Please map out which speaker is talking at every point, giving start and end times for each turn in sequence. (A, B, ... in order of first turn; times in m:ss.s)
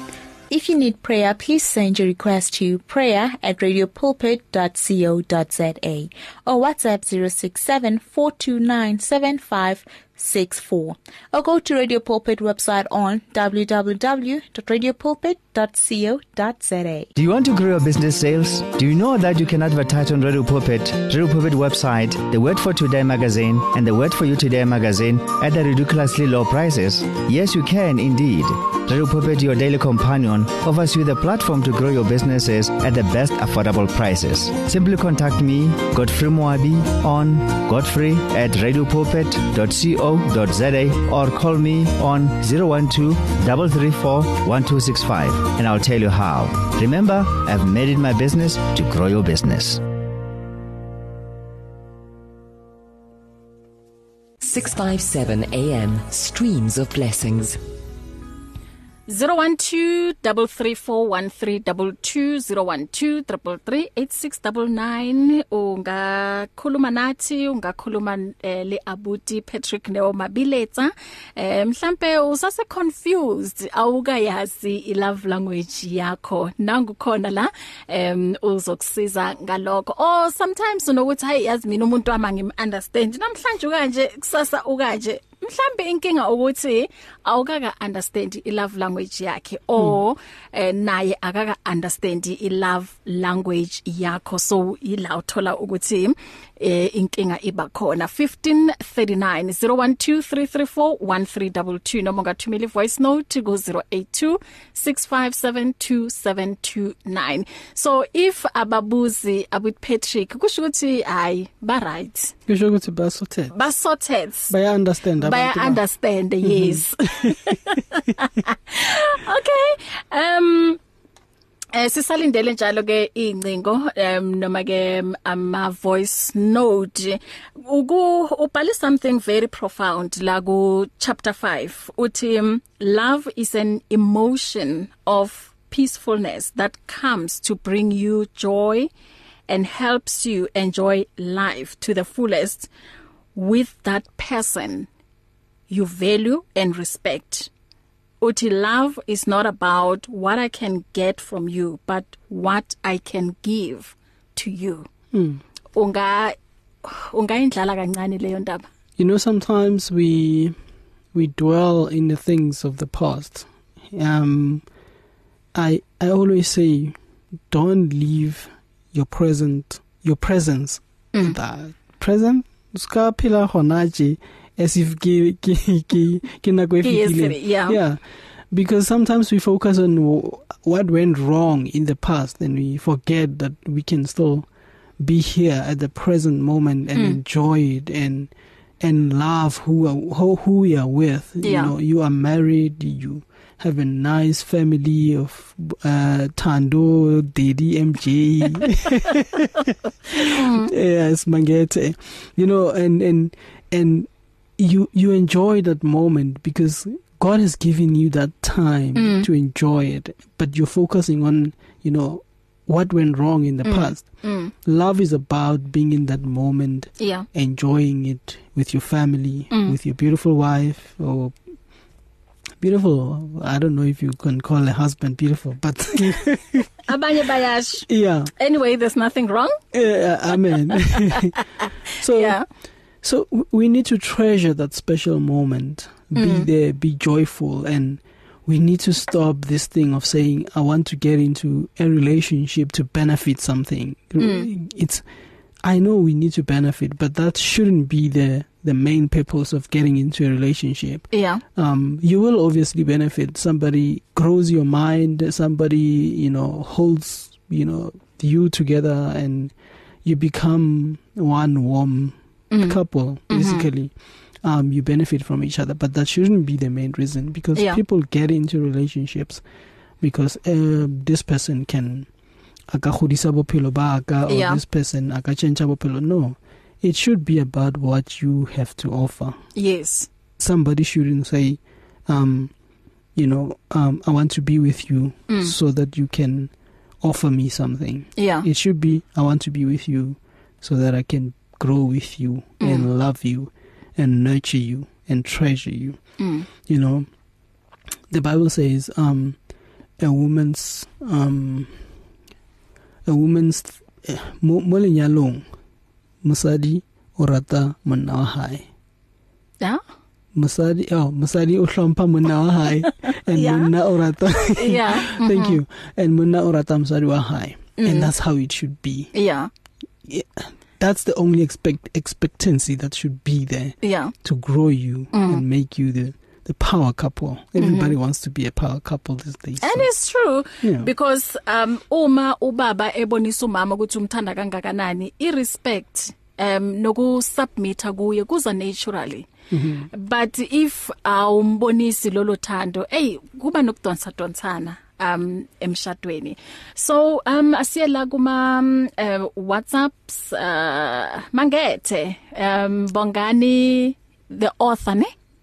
0:00.5-0:17.1 A
0:17.2-0:49.8 B
0:54.4-0:57.6 C
0:59.1-1:52.3 D
1:52.5-1:53.5 E
1:53.5-1:54.5 D
1:54.5-1:55.8 E
1:55.2-2:00.8 D
1:56.4-1:57.5 E
2:01.7-2:18.9 D
2:19.5-2:22.7 D
2:23.4-2:24.9 D
2:25.7-2:27.5 D
2:28.2-2:34.9 D
2:35.1-2:35.4 E
2:35.7-2:38.7 D
2:39.0-2:40.6 E
2:41.1-2:44.6 E
2:45.5-2:47.0 E
2:47.5-3:04.5 E
2:56.8-2:57.8 D
3:05.0-3:41.4 E
3:11.4-3:11.7 D
3:20.2-3:20.7 D
3:29.0-3:29.3 D
3:33.6-3:34.5 D
3:37.0-3:37.3 D
3:42.6-3:46.7 E
3:46.8-3:49.6 D
3:47.9-3:48.3 E
3:49.7-3:51.4 E
3:51.6-3:52.4 D
3:52.0-3:52.4 E
3:53.0-4:05.0 E
3:56.2-3:56.5 D
4:04.2-4:04.5 D
4:05.6-4:29.4 E
4:11.1-4:11.4 D
4:22.5-4:22.8 D
4:23.3-4:23.7 D
4:27.6-4:27.8 D
4:30.0-4:32.1 E
4:32.7-4:39.4 E
4:34.3-4:34.6 D
4:39.6-4:40.1 D
4:40.4-4:42.5 E
4:43.2-4:56.0 E
4:45.3-4:45.5 D
4:48.2-4:48.5 D
4:52.6-4:52.9 D
4:56.2-4:56.5 D
4:56.5-4:57.1 E
4:58.1-4:59.4 E
5:00.0-5:01.8 E
5:03.1-5:05.5 E
5:06.2-5:08.7 E
5:10.3-5:19.1 E
5:13.3-5:13.7 D
5:14.6-5:15.6 D
5:17.8-5:18.1 D
5:19.1-5:19.5 D
5:20.0-5:29.9 E
5:23.8-5:24.1 D
5:25.1-5:25.4 D
5:27.6-5:28.0 D
5:29.6-5:39.3 D
5:30.6-5:30.9 E
5:39.5-5:39.9 E
5:39.9-5:55.1 D